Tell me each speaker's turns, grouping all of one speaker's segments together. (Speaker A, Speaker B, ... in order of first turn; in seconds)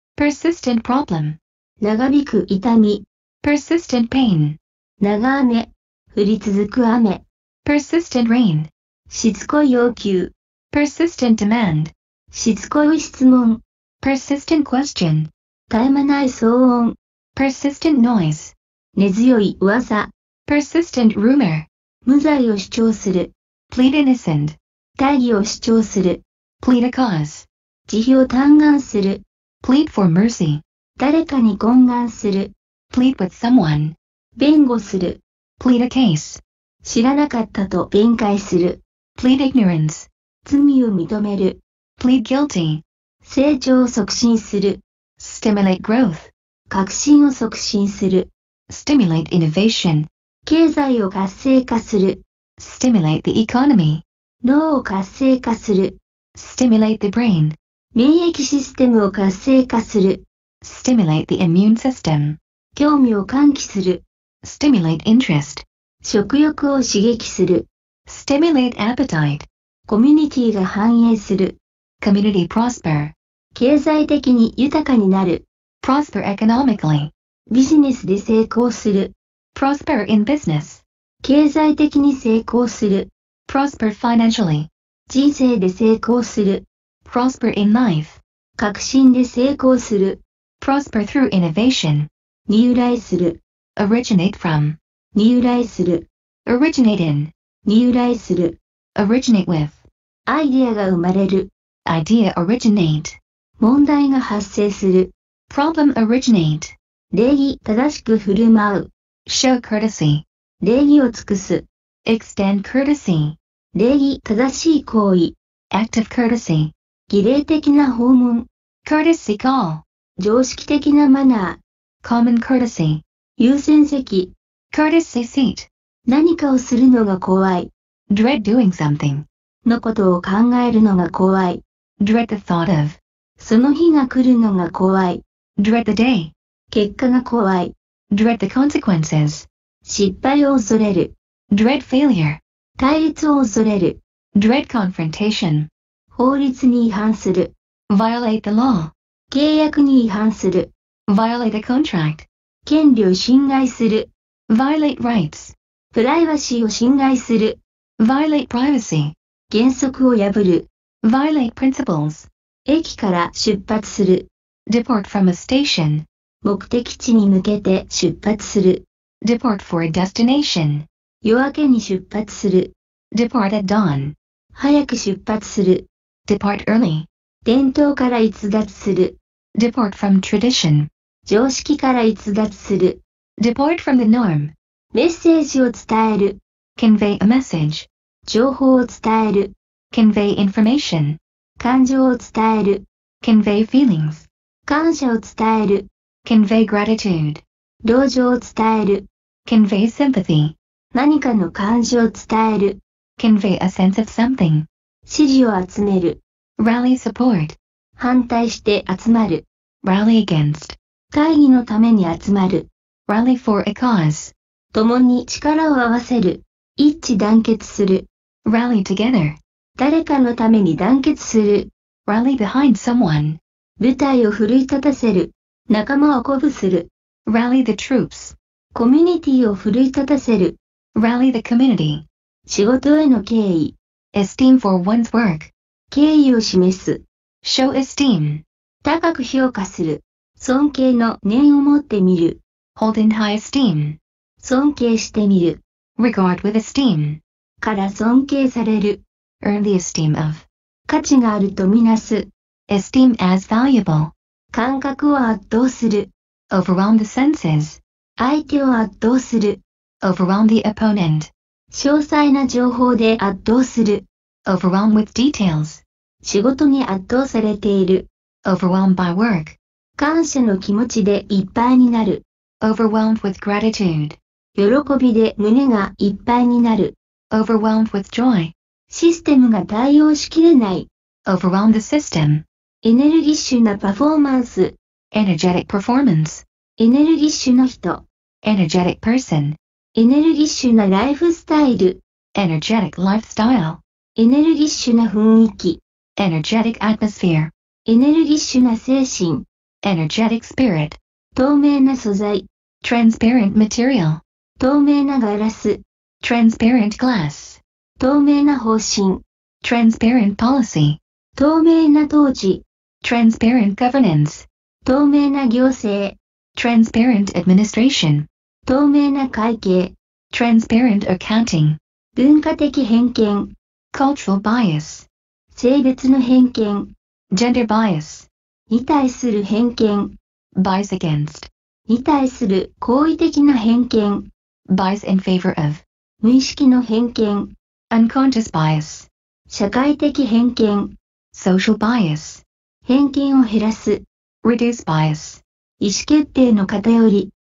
Speaker A: 0.2-1.4, 3.4-4.6, 7.7-8.7, 10.7-11.9, 14.0-15.3, 17.4-18.5, 20.5-21.7, 23.7-24.6, 26.6-27.5, 29.6-30.6, 32.9-34.0, 35.6-36.4, 39.2-40.1, 42.0-42.8, 45.2-46.3, 48.7-50.1, 52.6-54.0, 56.4-57.6, 60.6-62.4, 64.4-65.6, 68.1-69.5, 72.0-73.1, 75.8-77.1, 79.5-80.8, 83.5-84.7, 87.0-88.2, 90.6-92.1, 93.8-94.8, 96.5-97.3, 99.0-99.9, 101.9-103.2, 105.5-106.8, 109.3-110.2, 112.1-113.4, 115.7-116.7, 118.8-119.8, 122.0-123.0, 124.7-125.7, 128.1-129.3, 132.0-133.0, 135.6-136.3, 138.1-139.5, 141.5-142.4, 144.3-145.7, 147.9-148.9, 151.1-152.3, 154.5-155.5, 158.0-159.1, 161.0-162.3, 164.7-166.1, 169.2-170.9, 173.1-174.2, 176.3-177.1, 179.6-180.9, 183.4-184.5, 186.8-187.9, 189.9-191.2, 193.2-194.3, 196.2-197.4, 199.5-200.6, 203.2-204.7, 206.6-207.6, 209.8-210.8, 213.1-214.3, 218.4-219.4, 222.1-223.4, 227.3-228.3, 230.9-232.1, 234.1-235.5, 237.4-238.4, 242.8-244.0, 246.0-247.2, 249.4-250.5, 252.7-254.1, 256.5-257.8, 260.0-261.3, 264.5-265.8, 268.5-269.6, 272.6-274.2, 277.3-278.5, 281.3-282.4, 285.1-286.4, 288.4-289.6, 292.4-293.8, 296.2-297.5, 299.8-301.0, 302.8-304.2, 306.2-307.6, 309.6-311.0, 313.0-314.5, 316.6-318.3, 320.3-321.8, 323.9-325.1, 327.3-328.3, 330.6-331.5, 334.7-335.8, 337.9-339.1, 341.3-342.4, 344.4-345.4
Speaker B: 1.8-3.0, 5.0-7.2, 9.1-10.3, 12.3-13.6, 15.7-16.9, 19.0-20.1, 22.1-23.3, 25.0-26.2, 27.9-29.2, 31.0-32.5, 34.4-35.2, 36.8-38.8, 40.5-41.6, 43.2-44.8, 46.7-48.3, 50.5-52.2, 54.4-56.0, 58.0-60.2, 62.8-64.0, 66.0-67.7, 69.9-71.5, 73.5-75.4, 77.5-79.1, 81.2-83.1, 85.1-86.6, 88.6-90.2, 92.5-93.4, 95.2-96.0, 97.7-98.6, 100.3-101.5, 103.6-105.1, 107.1-108.9, 110.6-111.6, 113.8-115.3, 117.1-118.5, 120.2-121.6, 123.4-124.3, 126.1-127.7, 129.7-131.6, 133.4-135.2, 136.7-137.7, 139.9-141.1, 142.8-144.0, 146.2-147.5, 149.3-150.7, 152.7-154.1, 155.9-157.6, 159.5-160.7, 162.7-164.2, 166.4-168.8, 171.2-172.7, 174.6-175.8, 177.4-179.1, 181.3-183.0, 184.9-186.4, 188.3-189.5, 191.6-192.8, 194.7-195.8, 197.8-199.0, 200.9-202.8, 205.1-206.2, 208.0-209.4, 211.1-212.7, 214.7-218.1, 219.8-221.7, 223.8-226.9, 228.8-230.6, 232.5-233.7, 235.9-237.0, 238.8-242.4, 244.4-245.6, 247.6-249.0, 250.9-252.3, 254.5-256.1, 258.2-259.6, 261.7-264.0, 266.2-268.0, 270.0-272.2, 274.6-276.9, 278.9-280.9, 282.8-284.7, 286.8-288.0, 290.0-292.0, 294.2-295.8, 297.9-299.4, 301.4-302.4, 304.6-305.8, 308.0-309.2, 311.4-312.6, 314.9-316.1, 318.7-319.9, 322.2-323.5, 325.5-326.9, 328.7-330.1, 331.9-334.3, 336.2-337.5, 339.5-340.9, 342.9-344.0, 345.8-347.3